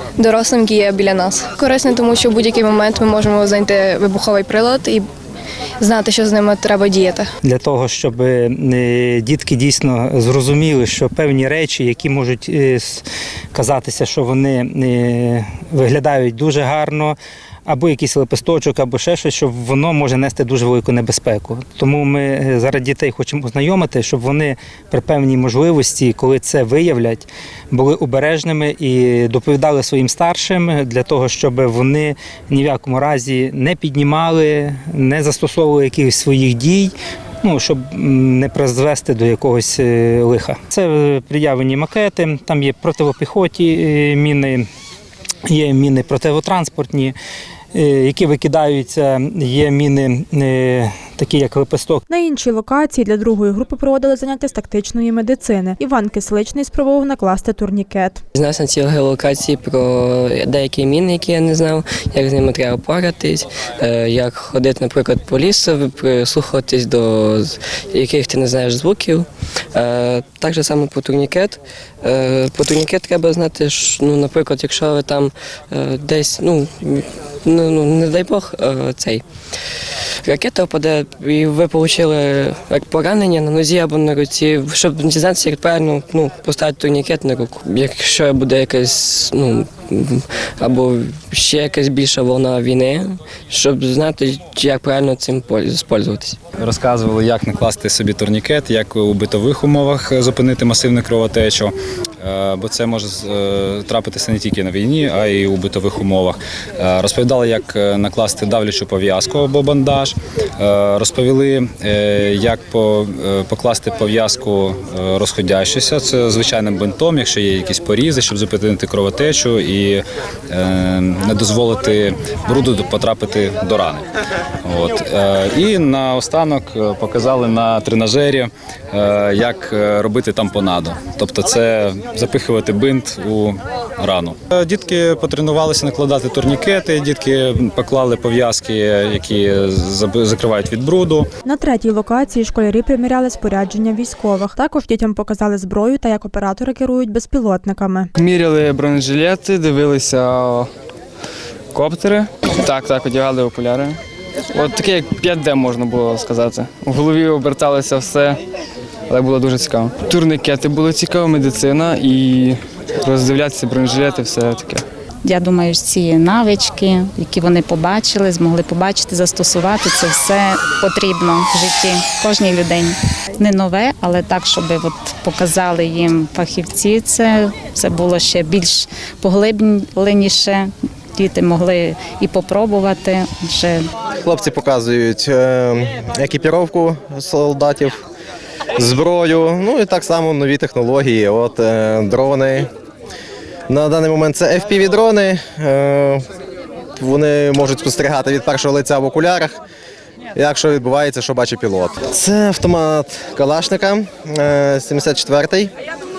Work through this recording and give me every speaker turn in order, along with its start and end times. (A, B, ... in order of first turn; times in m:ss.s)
0:00.2-0:05.1 A
0:05.8-0:07.3 A
0:07.4-0:44.7 B
0:45.5-0:47.1 B
0:47.7-0:52.0 B
0:52.1-0:58.2 C
0:58.3-1:19.2 D
1:20.2-1:36.4 D
1:36.6-2:04.0 E
2:04.6-2:21.3 E
2:21.4-2:28.1 C
2:28.2-2:30.7 F
2:31.7-2:34.0 F
2:34.5-2:38.4 F
2:39.1-2:44.8 F
2:45.2-3:03.9 G
3:04.2-3:08.0 H
3:08.8-3:12.7 H
3:13.7-3:16.2 H
3:17.0-3:19.6 H
3:20.3-3:25.7 H